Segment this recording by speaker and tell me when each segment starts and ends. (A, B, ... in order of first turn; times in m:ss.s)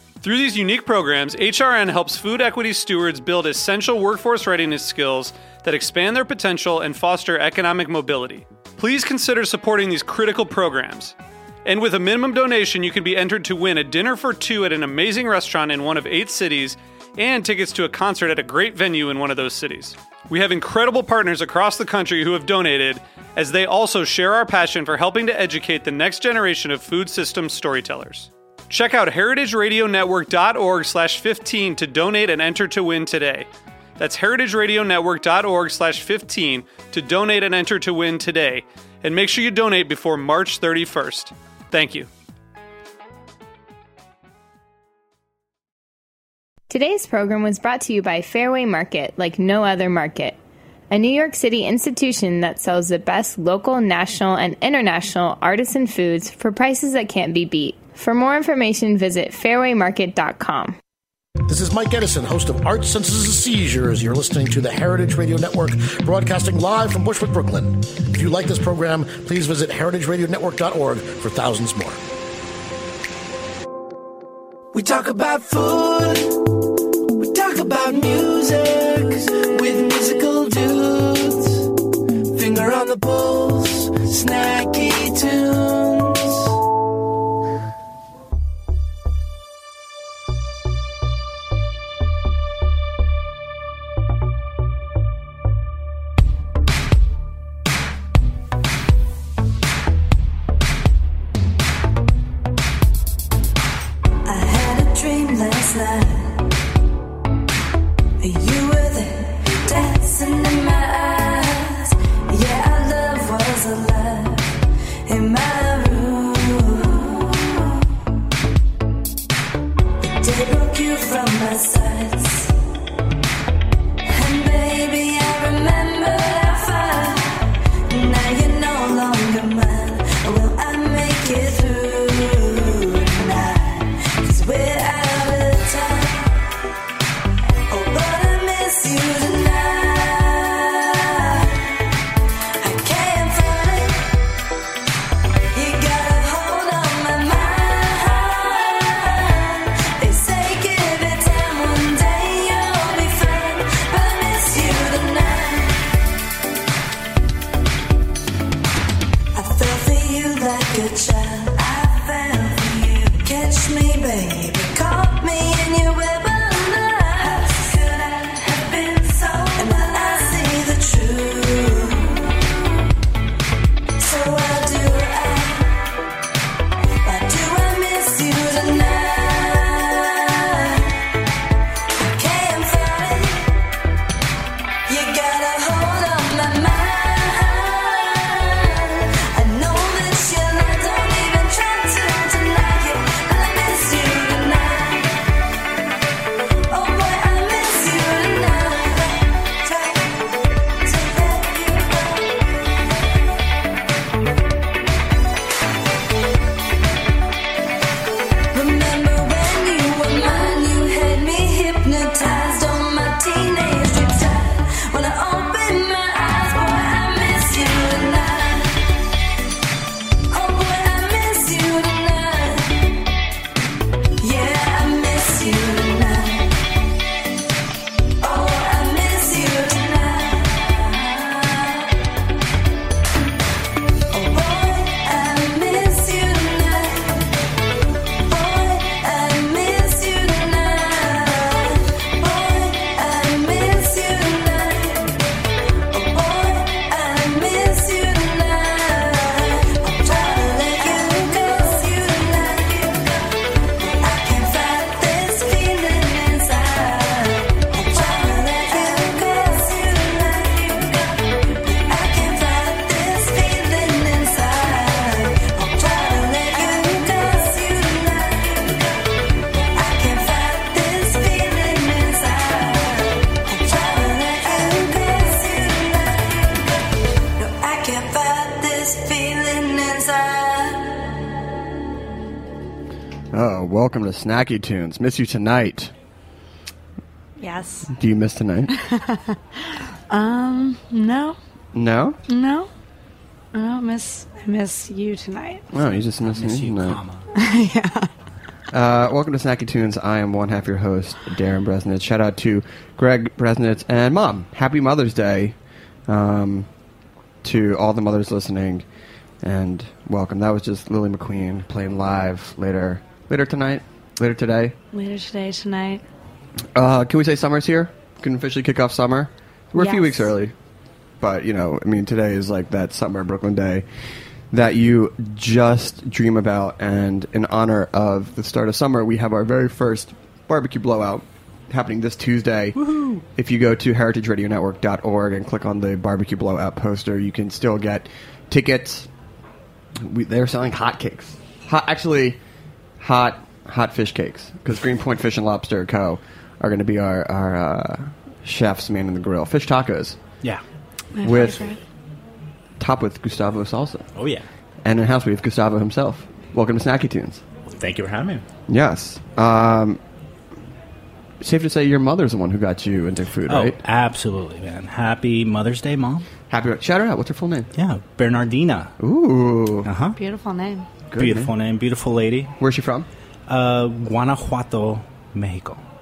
0:00.2-0:11.1 A
0:11.6-0:42.1 A
0:46.7-0:50.4 B
0:50.9-1:00.8 B
1:01.5-1:12.0 C
1:14.7-1:16.5 D
1:17.2-1:21.8 D
1:22.3-1:26.6 D
1:44.2-1:46.5 E
1:48.2-1:57.9 E
2:00.0-2:02.5 E
2:04.0-2:16.3 E
2:17.7-2:21.8 E
2:22.6-2:24.1 E
2:25.5-2:35.8 E
2:39.4-2:52.7 E
2:54.0-2:55.9 E
2:57.0-3:01.0 E
3:02.0-3:03.6 E
3:04.9-3:15.2 E
3:16.7-3:20.1 E
3:20.8-3:22.6 E
3:28.5-3:38.8 E
3:40.3-3:42.8 E
3:44.2-3:46.6 E
3:48.2-3:51.9 E
3:54.1-3:57.2 E
3:58.2-4:05.1 E
4:05.9-4:28.9 E
4:29.7-4:36.6 E
4:37.4-4:41.0 E
4:43.3-4:45.9 F
4:47.4-4:47.9 G
4:47.9-4:48.7 F
4:48.8-4:51.4 G
4:51.7-4:52.2 F
4:52.3-4:52.7 G
4:53.5-4:55.7 G
4:55.7-4:57.0 F
4:55.8-4:57.3 H
4:57.4-4:58.1 G
4:58.7-5:05.6 F
5:06.1-5:06.7 F
5:07.4-5:08.8 F
5:09.4-5:14.8 F
5:14.9-5:16.0 G
5:16.7-5:20.5 F
5:19.8-5:20.3 G
5:21.2-5:23.8 F
5:24.5-5:32.8 F
5:32.8-5:33.2 H
5:33.4-5:39.1 F
5:40.0-5:42.4 F
5:43.0-5:50.2 F
5:51.2-5:51.8 G
5:51.2-5:51.7 F
5:52.8-5:54.1 F
5:54.2-5:54.5 H
5:54.8-5:57.4 F
5:57.7-5:58.4 H
5:58.7-6:00.0 F
6:01.4-6:03.8 F
6:03.5-6:06.3 H
6:06.5-6:07.7 F
6:07.8-6:09.0 H
6:09.0-6:09.9 F
6:09.8-6:10.2 H
6:10.2-6:10.9 G
6:11.1-6:11.5 F
6:11.2-6:12.5 H
6:12.6-6:13.1 F
6:13.5-6:15.8 H